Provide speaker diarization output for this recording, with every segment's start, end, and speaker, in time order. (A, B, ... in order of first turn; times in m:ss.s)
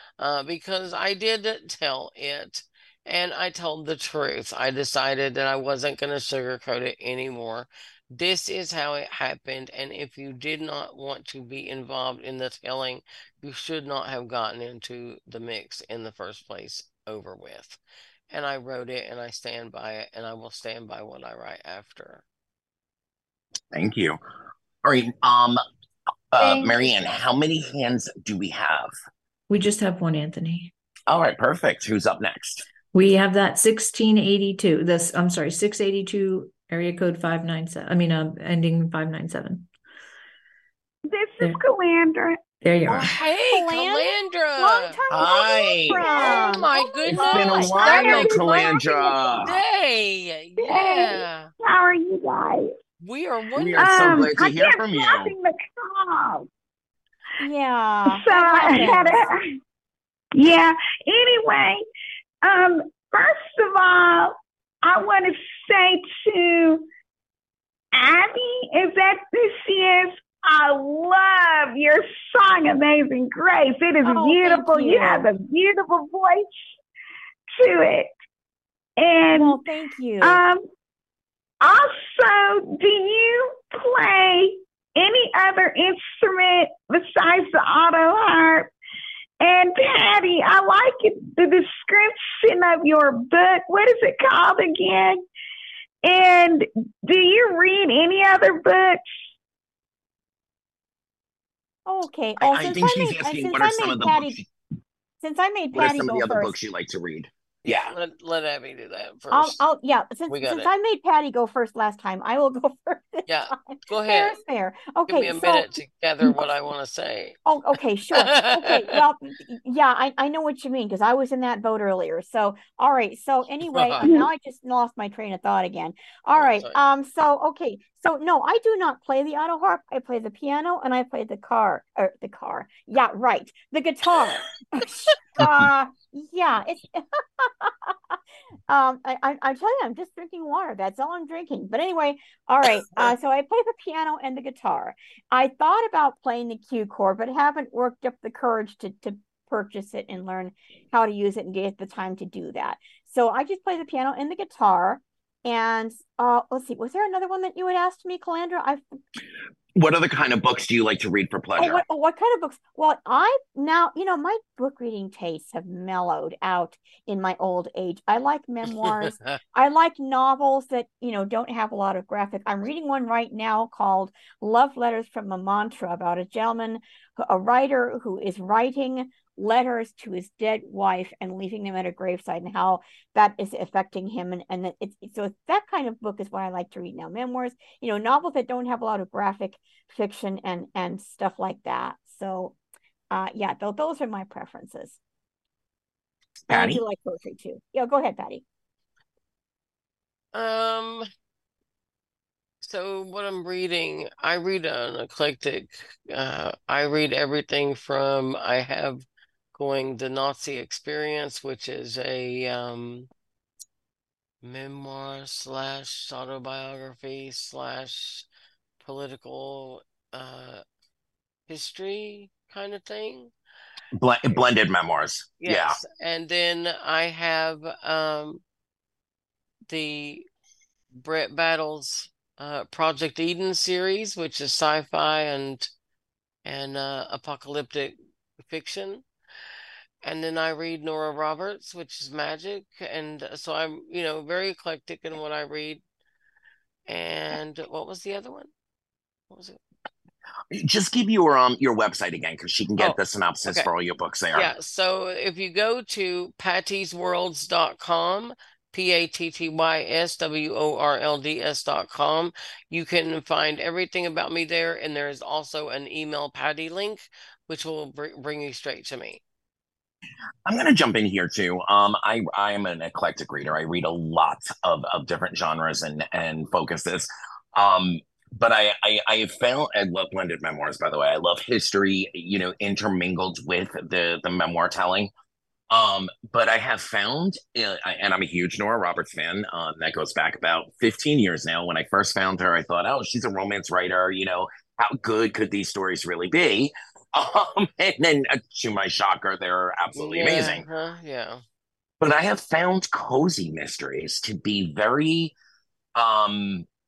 0:00.2-0:22.2 A
0:23.7-0:24.2 B
0:24.8-0:25.6 B
0:26.3-0:28.9 B
0:26.4-0:26.9 C
0:29.5-0:30.7 D
0:31.1-0:32.6 B
0:32.9-0:39.7 D
0:41.1-0:42.4 E
0:42.6-0:43.1 D
0:42.9-0:48.2 C
0:42.9-0:45.0 A
0:45.1-0:46.5 B
0:46.0-0:48.5 A
0:47.1-0:49.5 B
0:47.2-0:49.2 E
0:49.4-0:51.5 A
0:50.6-0:52.7 E
0:53.0-0:54.3 A
0:53.6-0:55.3 B
0:53.8-0:56.5 E
0:57.4-0:59.3 C
0:58.0-0:59.5 E
1:00.4-1:01.8 E
1:02.4-1:06.9 E
1:07.9-1:16.7 E
1:14.0-1:15.3 C
1:17.6-1:18.1 E
1:19.0-1:19.6 E
1:19.3-1:20.4 C
1:20.2-1:20.6 E
1:21.6-1:28.7 E
1:29.4-1:35.2 E
1:36.0-1:39.0 E
1:41.9-1:44.4 C
1:42.4-1:44.5 B
1:45.2-1:46.6 C
1:45.7-1:47.9 B
1:47.6-1:49.6 A
1:49.3-1:55.7 C
1:50.3-1:50.7 A
1:53.3-1:54.3 A
1:55.1-1:57.4 A
1:57.5-2:18.2 C
1:58.1-1:59.0 A
2:03.7-2:04.0 A
2:06.3-2:06.8 A
2:18.7-2:38.8 C
2:39.8-2:41.8 B
2:41.6-3:12.6 C
2:48.8-2:49.4 A
3:13.1-3:15.0 C
3:16.5-3:16.8 B
3:16.5-3:18.4 C
3:20.3-3:21.1 A
3:22.6-3:33.1 A
3:34.4-3:38.3 A
3:38.8-3:40.6 A
3:41.5-3:43.3 A
3:44.0-3:45.8 B
3:45.4-3:48.4 A
3:49.7-3:50.3 A
3:50.9-3:55.7 A
3:56.4-3:59.0 A
4:00.0-4:05.8 A
4:06.9-4:08.5 A
4:09.3-4:09.6 A
4:10.5-4:14.5 B
4:12.8-4:13.7 A
4:14.3-4:29.2 A
4:30.4-4:45.1 B
4:45.7-5:00.6 B
5:00.0-5:01.4 A
5:02.0-5:05.4 B
5:06.0-5:06.7 B